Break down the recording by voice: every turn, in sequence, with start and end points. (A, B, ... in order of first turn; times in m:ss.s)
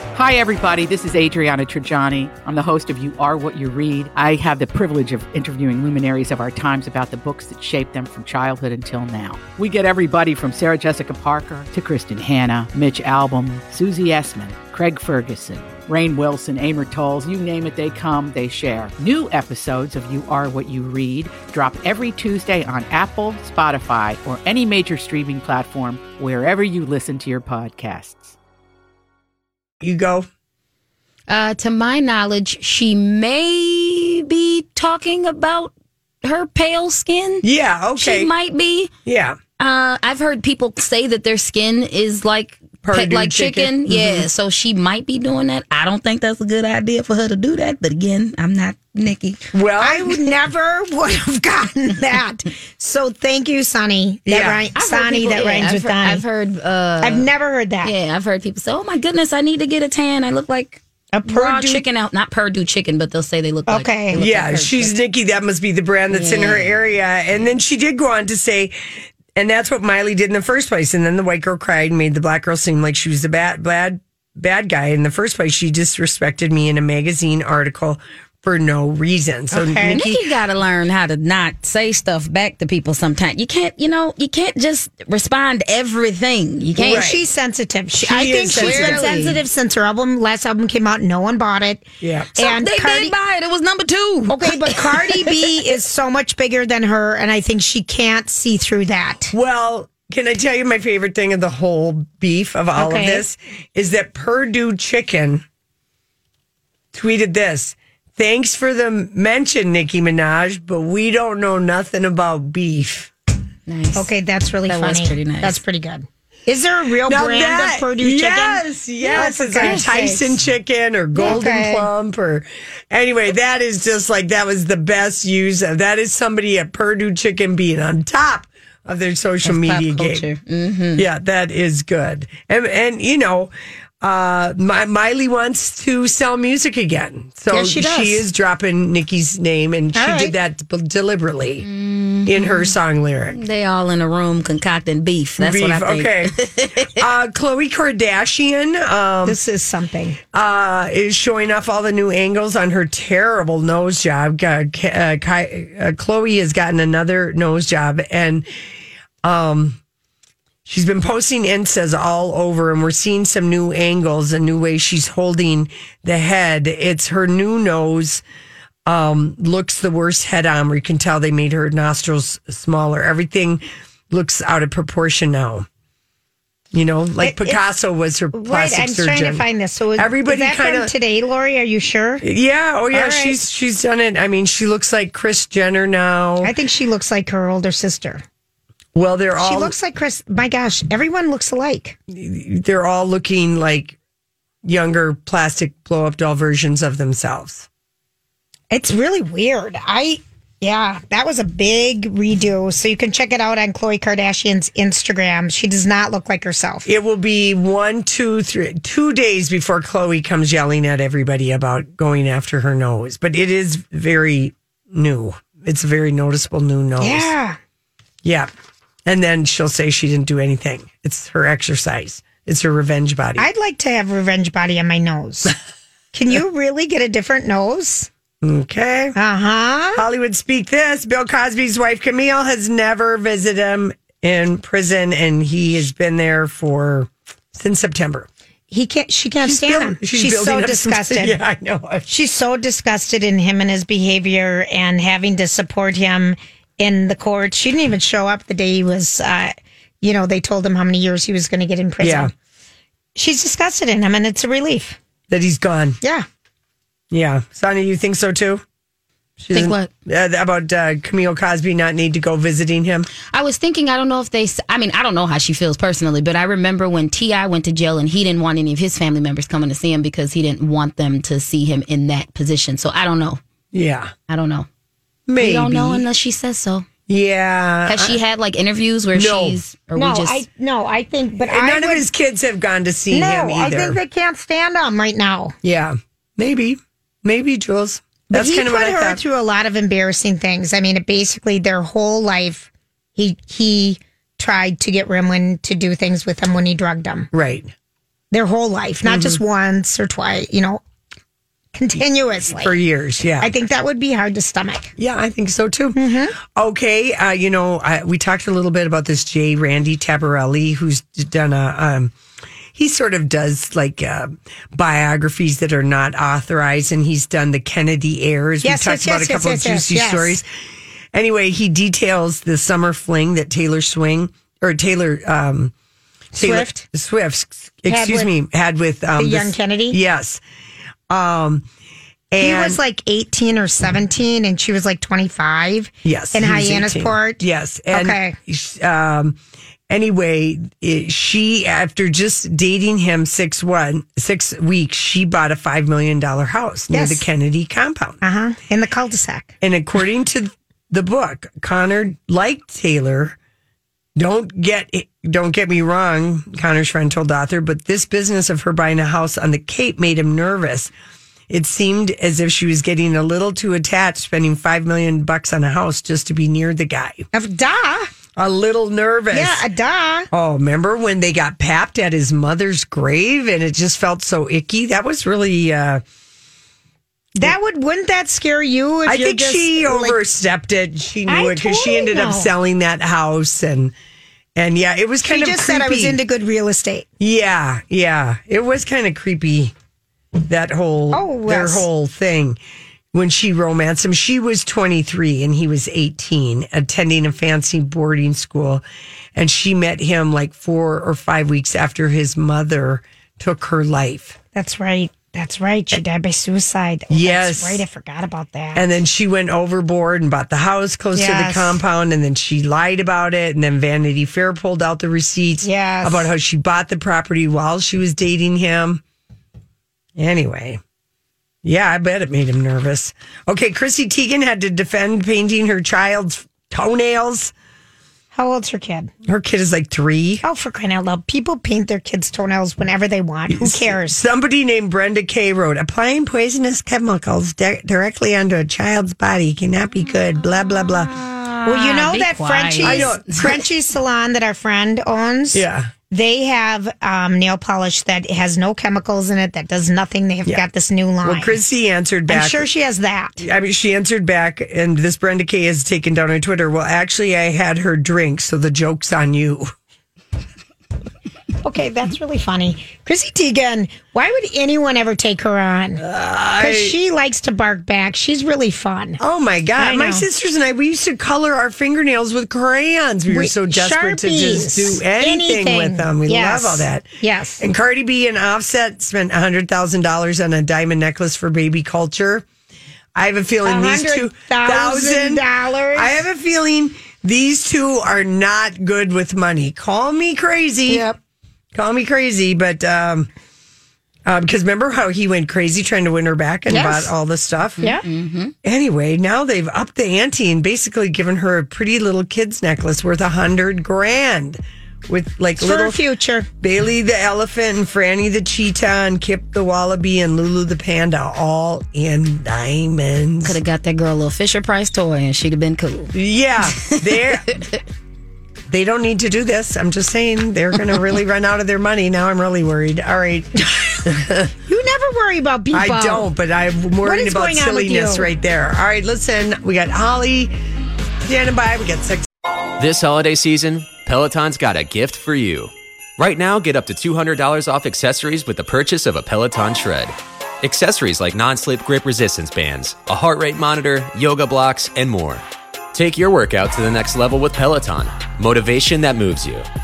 0:00.1-0:28.4 A
0:29.8-0:30.3 B
0:31.3-0:35.7 C
0:36.2-0:37.4 C
0:37.4-0:38.3 B
0:38.0-0:38.9 C
0:39.1-0:39.4 B
0:39.6-0:49.5 C
0:42.8-0:44.3 B
0:49.5-0:50.2 B
0:49.8-0:56.2 D
0:54.3-0:54.6 B
0:54.8-0:57.3 C
0:57.0-0:57.9 D
0:57.8-1:04.6 C
1:01.1-1:01.8 D
1:03.7-1:04.9 D
1:04.1-1:08.7 B
1:06.1-1:06.8 C
1:09.4-1:20.2 B
1:19.5-1:20.0 D
1:19.9-1:27.2 C
1:26.8-1:31.8 D
1:26.8-1:27.2 B
1:27.9-1:29.1 B
1:28.5-1:29.4 C
1:32.0-1:32.3 B
1:32.4-1:33.2 D
1:32.4-1:35.4 C
1:34.3-1:39.3 D
1:39.3-1:45.4 B
1:42.8-1:43.2 D
1:46.9-1:53.1 B
1:53.7-1:54.1 C
1:54.0-2:00.4 D
1:54.7-1:55.6 C
1:57.0-2:10.3 B
1:59.6-2:00.0 C
2:01.2-2:01.9 D
2:09.4-2:11.0 C
2:11.0-2:21.6 B
2:17.5-2:18.2 D
2:19.9-2:20.3 D
2:21.6-2:22.7 C
2:22.3-2:23.4 B
2:23.3-2:27.0 C
2:25.4-2:26.3 B
2:26.9-2:29.4 B
2:29.2-2:30.2 D
2:30.3-2:38.4 B
2:39.2-2:39.8 B
2:40.7-2:48.2 B
2:48.9-2:55.7 B
2:56.7-2:59.4 B
2:57.2-2:57.6 D
2:58.3-3:02.2 D
3:00.0-3:00.9 B
3:02.2-3:06.5 B
3:02.9-3:03.4 D
3:06.4-3:08.2 D
3:09.0-3:09.7 B
3:09.4-3:12.0 D
3:12.1-3:14.0 B
3:14.6-3:17.7 B
3:18.7-3:26.9 D
3:26.9-3:37.3 B
3:37.0-3:37.6 D
3:38.2-3:38.5 B
3:39.1-3:43.5 B
3:43.4-3:45.6 D
3:46.1-3:48.1 D
3:48.4-3:49.2 B
3:49.2-3:50.0 D
3:49.9-3:58.3 B
3:58.7-4:01.4 D
3:59.4-4:02.1 B
4:02.1-4:12.3 D
4:12.0-4:12.3 B
4:13.2-4:15.0 D
4:15.3-4:16.0 B
4:17.1-4:18.6 B
4:19.4-4:23.1 B
4:19.5-4:19.9 C
4:23.3-4:33.4 C
4:33.7-4:34.1 B
4:34.3-4:34.7 C
4:35.3-4:36.0 B
4:35.4-4:36.8 C
4:37.1-4:38.2 B
4:37.9-4:40.4 C
4:39.1-4:39.6 B
4:40.0-4:42.1 D
4:41.4-4:44.0 B
4:43.1-4:45.6 D
4:45.6-4:49.2 B
4:48.3-4:57.3 D
4:57.3-4:57.7 B
4:58.3-5:00.8 D
4:59.0-4:59.4 B
5:01.7-5:02.8 D
5:02.6-5:03.5 B
5:03.4-5:04.9 D
5:05.0-5:12.1 B
5:06.0-5:06.4 D
5:12.8-5:20.5 B
5:18.6-5:20.4 D
5:21.1-5:25.7 B
5:26.3-5:30.4 B
5:26.4-5:26.8 D
5:27.9-5:28.3 D
5:29.2-5:30.0 D
5:31.1-5:31.7 B
5:32.3-5:32.8 B
5:32.4-5:38.4 D
5:36.0-5:48.2 B
5:46.9-5:47.2 D
5:48.2-5:49.6 D
5:49.6-5:53.4 B
5:54.2-6:00.9 B
6:01.5-6:07.3 B
6:07.3-6:08.1 D
6:08.4-6:09.6 B
6:09.3-6:10.3 D
6:10.3-6:16.0 B
6:17.4-6:20.2 D
6:19.1-6:23.9 B
6:21.3-6:22.5 D
6:24.6-6:26.2 B
6:25.2-6:27.1 D
6:27.2-6:29.7 B
6:30.5-6:32.6 B
6:31.1-6:31.9 D
6:33.1-6:38.8 B
6:39.4-6:44.4 B
6:44.5-6:48.9 D
6:47.1-6:47.8 B
6:48.7-6:59.0 B
6:51.2-6:51.8 D
6:55.6-6:56.3 D
7:00.2-7:00.8 B
7:01.6-7:07.5 B
7:08.3-7:09.1 D
7:09.2-7:10.4 B
7:10.4-7:14.2 D
7:13.5-7:21.2 B
7:21.0-7:23.4 C
7:21.7-7:31.6 D
7:22.8-7:23.4 B
7:25.5-7:25.9 B
7:31.2-7:32.7 B
7:32.3-7:33.5 D
7:33.4-7:39.7 B
7:41.6-7:46.0 D
7:46.0-7:47.0 B
7:46.6-7:49.2 D
7:49.2-8:02.4 B
7:49.8-7:50.2 D
7:53.3-7:57.6 D
8:03.2-8:11.1 B
8:03.6-8:06.2 D
8:10.9-8:11.2 D
8:11.7-8:13.3 B
8:14.3-8:17.8 B
8:16.7-8:17.1 D
8:17.8-8:18.5 C
8:18.6-8:26.0 B
8:25.6-8:26.5 D
8:26.6-8:33.6 B
8:33.4-8:36.1 C
8:36.1-8:37.5 B
8:38.7-8:44.5 B
8:44.7-8:46.3 D
8:45.7-8:50.6 B
8:47.0-8:48.3 D
8:51.2-8:52.3 B
8:52.8-9:09.7 E